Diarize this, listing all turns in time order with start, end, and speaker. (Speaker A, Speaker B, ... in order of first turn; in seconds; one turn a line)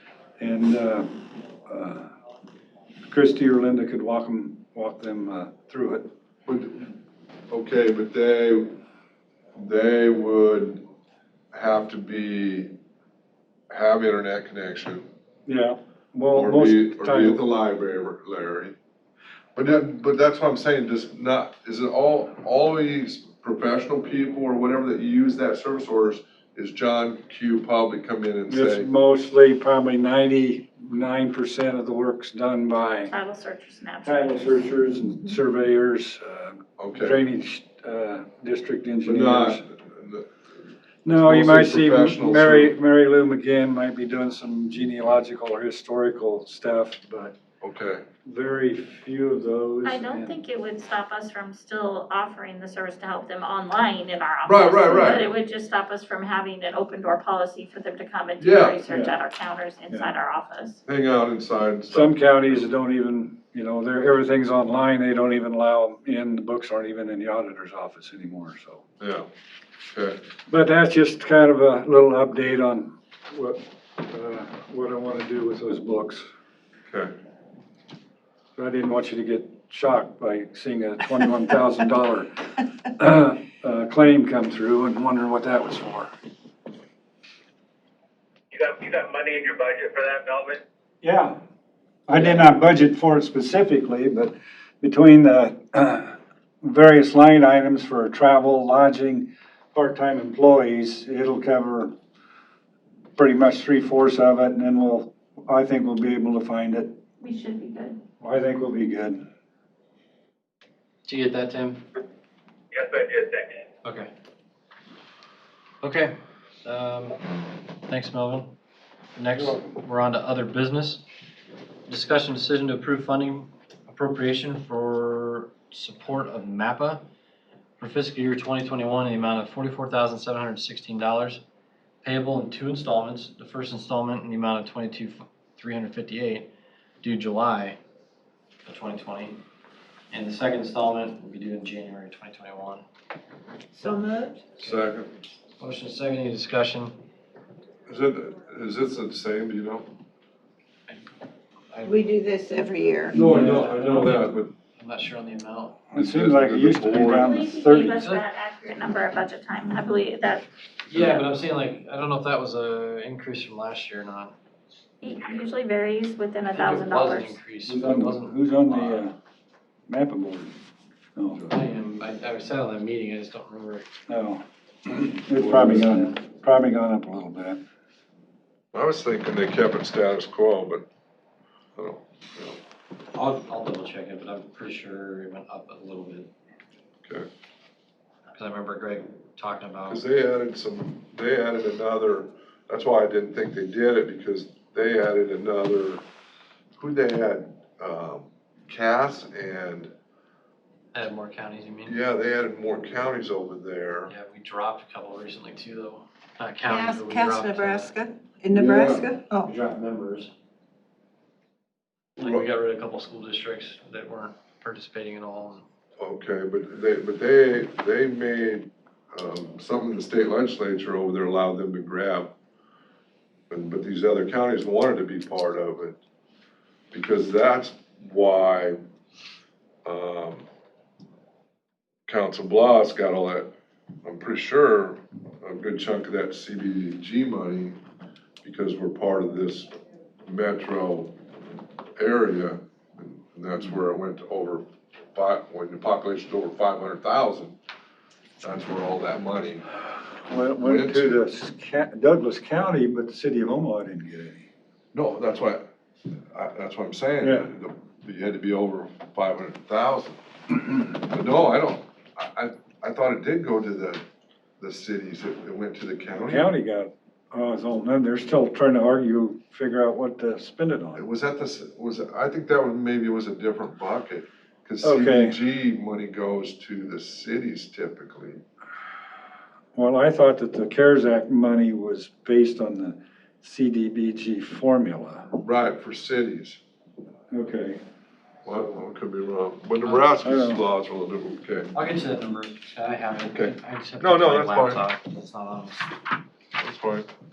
Speaker A: 0.4-2.1
Speaker A: 3.1-6.1
Speaker B: 6.5-6.9
Speaker B: 7.5-8.7
Speaker B: 9.5-10.8
Speaker B: 11.5-12.8
Speaker B: 13.7-15.0
Speaker A: 15.4-17.4
Speaker B: 16.3-18.7
Speaker B: 19.6-28.9
Speaker A: 28.5-33.1
Speaker C: 33.1-34.5
Speaker A: 34.0-39.6
Speaker B: 36.8-37.2
Speaker B: 39.0-40.3
Speaker A: 41.0-47.4
Speaker B: 41.1-42.7
Speaker B: 47.6-48.0
Speaker A: 48.2-50.4
Speaker C: 49.8-60.8
Speaker B: 54.5-55.3
Speaker B: 58.4-58.8
Speaker A: 58.9-59.1
Speaker B: 60.9-62.1
Speaker A: 61.9-68.8
Speaker B: 69.0-69.3
Speaker B: 69.9-70.2
Speaker A: 70.5-76.2
Speaker A: 78.5-82.3
Speaker A: 82.8-86.1
Speaker D: 88.5-90.6
Speaker A: 91.0-91.4
Speaker A: 92.1-101.9
Speaker A: 103.2-107.0
Speaker C: 107.2-108.0
Speaker A: 108.2-109.2
Speaker E: 111.0-111.8
Speaker D: 112.7-113.6
Speaker E: 113.8-114.1
Speaker E: 115.8-117.2
Speaker E: 117.9-118.5
Speaker E: 119.2-121.0
Speaker E: 121.9-127.0
Speaker E: 127.8-131.4
Speaker E: 132.0-136.5
Speaker E: 137.0-137.8
Speaker E: 138.6-139.4
Speaker E: 140.1-142.8
Speaker F: 143.7-144.4
Speaker E: 144.6-144.9
Speaker B: 144.6-145.1
Speaker E: 145.6-147.0
Speaker B: 147.9-149.9
Speaker E: 151.7-155.8
Speaker F: 151.8-153.2
Speaker B: 153.1-154.5
Speaker A: 153.1-153.7
Speaker A: 155.9-158.0
Speaker B: 155.9-157.4
Speaker C: 157.1-161.2
Speaker E: 157.8-158.2
Speaker E: 160.9-164.3
Speaker C: 165.0-167.4
Speaker E: 166.5-169.1
Speaker A: 167.7-169.1
Speaker A: 169.9-170.5
Speaker A: 171.2-171.4
Speaker E: 171.5-173.9
Speaker A: 174.1-177.6
Speaker B: 175.3-175.9
Speaker B: 178.7-180.8
Speaker B: 181.8-182.6
Speaker E: 183.1-186.3
Speaker E: 188.3-190.0
Speaker B: 189.8-196.0
Speaker B: 196.8-199.9
Speaker E: 200.9-202.0
Speaker B: 201.8-204.1
Speaker E: 204.1-207.9
Speaker F: 206.6-209.5
Speaker B: 208.5-209.2
Speaker E: 209.4-210.3
Speaker B: 212.2-212.5
Speaker E: 212.2-215.6
Speaker B: 216.0-222.3
Speaker B: 223.5-226.0
Speaker B: 226.9-228.8
Speaker B: 229.8-230.4
Speaker B: 232.1-233.5
Speaker B: 234.0-237.8
Speaker B: 238.4-239.7
Speaker B: 240.2-241.2
Speaker B: 242.0-247.6
Speaker B: 248.4-249.6
Speaker A: 250.2-254.5
Speaker B: 250.6-251.2
Speaker B: 254.9-255.7
Speaker B: 256.3-260.2
Speaker A: 257.2-257.5
Speaker B: 260.9-264.0
Speaker B: 264.6-266.5
Speaker A: 266.2-271.0
Speaker B: 270.9-278.4
Speaker A: 274.8-275.4
Speaker A: 279.7-285.3
Speaker B: 285.4-286.6
Speaker A: 287.3-287.8
Speaker B: 288.4-291.7
Speaker E: 289.8-290.1
Speaker A: 290.2-290.6
Speaker E: 291.7-296.0
Speaker B: 293.3-294.8
Speaker B: 296.6-297.1